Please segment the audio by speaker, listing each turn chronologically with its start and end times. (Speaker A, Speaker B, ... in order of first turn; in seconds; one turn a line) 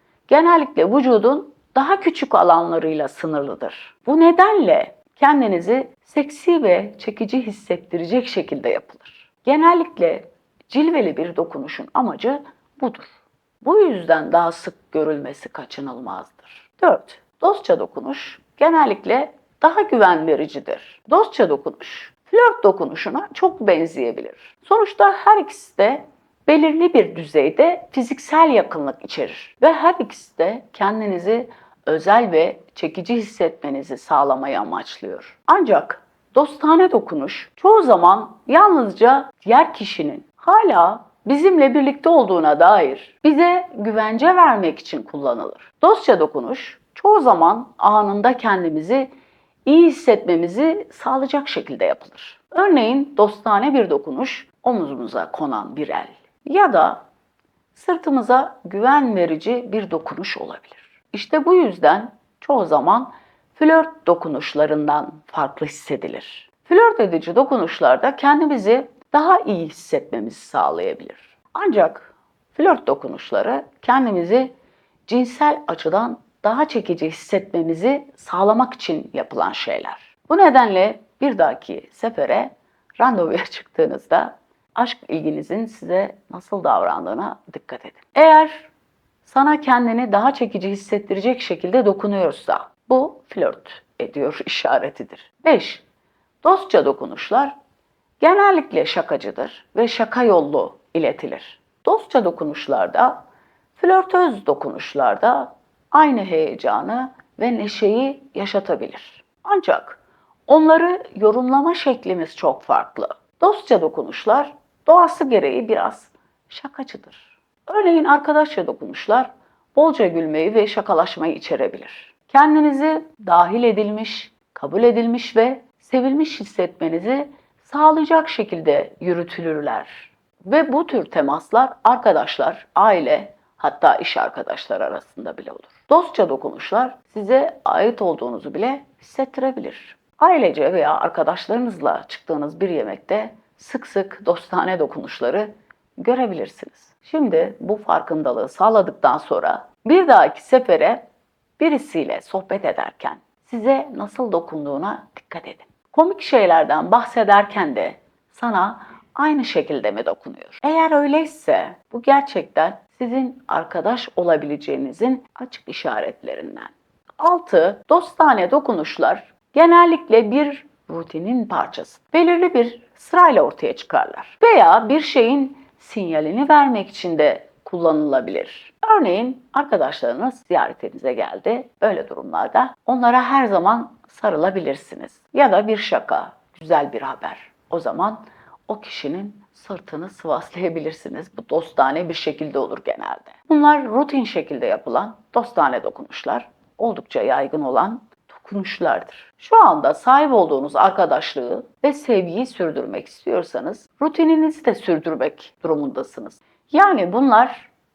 Speaker A: 0.3-49.1
Speaker A: 49.6-57.0
Speaker A: 57.7-74.5
Speaker A: 75.1-88.7
Speaker A: 89.2-95.8
Speaker A: 96.4-97.5
Speaker A: 98.2-103.2
Speaker A: 103.8-151.1
Speaker A: 151.6-207.7